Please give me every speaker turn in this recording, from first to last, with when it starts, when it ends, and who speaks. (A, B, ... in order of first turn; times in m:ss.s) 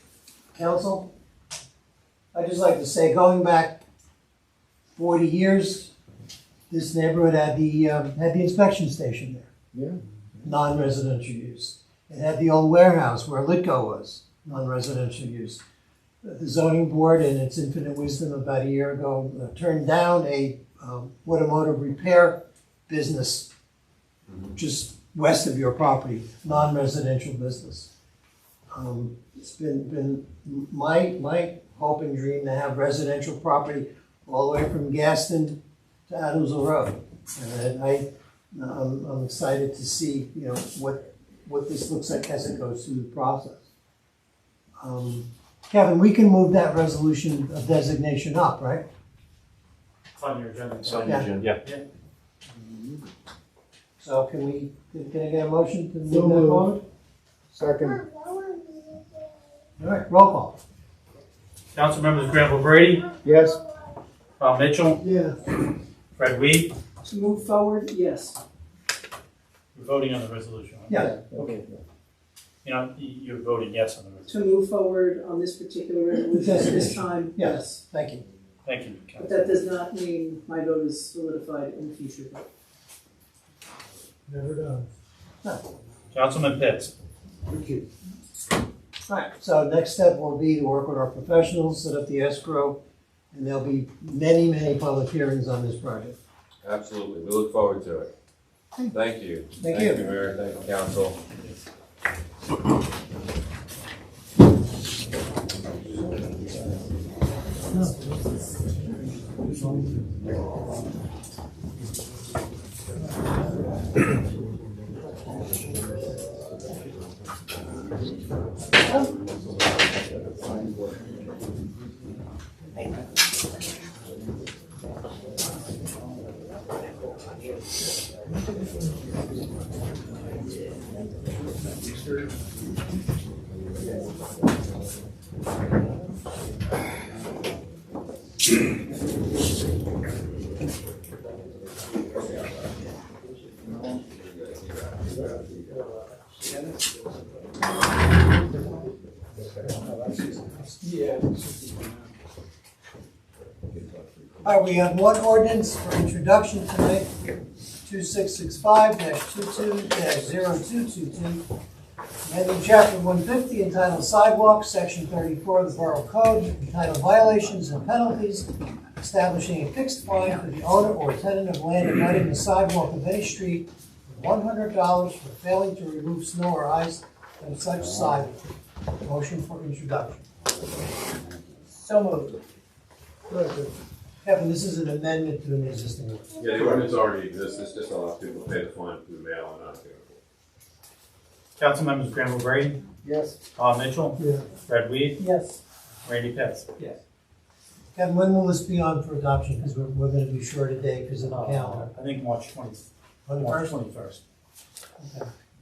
0:00.5-0:01.1 A
0:02.3-0:03.8 A
0:05.0-0:05.9 A
0:06.7-0:09.5 A
0:09.7-0:10.0 B
0:10.4-0:15.6 A
0:16.2-0:23.5 A
0:24.5-0:27.9 A
0:28.7-0:43.6 A
0:44.8-0:48.9 A
0:50.2-0:51.8 C
0:50.9-0:51.5 D
0:52.6-0:53.0 B
0:54.0-0:56.8 A
0:56.1-0:56.8 B
0:57.5-0:58.1 B
0:59.8-1:00.6 A
1:01.8-1:03.1 C
1:03.2-1:03.6 B
1:04.4-1:05.0 C
1:05.0-1:05.4 B
1:06.2-1:06.7 C
1:07.0-1:08.4 E
1:09.8-1:11.6 C
1:10.9-1:11.2 A
1:11.0-1:11.8 B
1:12.6-1:14.3 C
1:14.3-1:17.8 E
1:16.3-1:18.2 A
1:18.7-1:19.3 C
1:19.2-1:22.5 E
1:24.3-1:24.8 A
1:26.1-1:26.9 C
1:29.1-1:32.8 A
1:33.3-1:36.2 A
1:36.6-1:38.1 D
1:38.9-1:41.2 D
1:39.6-1:40.0 A
2:24.1-2:25.2 D
2:25.2-2:25.9 B
2:31.4-2:31.8 B
2:34.4-2:37.1 A
2:37.8-2:41.4 A
2:42.2-2:48.5 A
2:49.0-2:58.4 A
2:59.0-3:00.2 A
3:01.7-3:02.4 E
3:03.3-3:03.8 B
3:04.2-3:06.8 A
3:06.4-3:10.2 D
3:11.6-3:12.8 C
3:13.0-3:13.4 B
3:13.6-3:15.2 C
3:14.2-3:14.5 B
3:15.2-3:15.6 E
3:16.1-3:16.7 C
3:17.9-3:21.9 A
3:21.3-3:22.9 C
3:23.3-3:23.8 A
3:23.4-3:24.2 C
3:25.0-3:25.3 A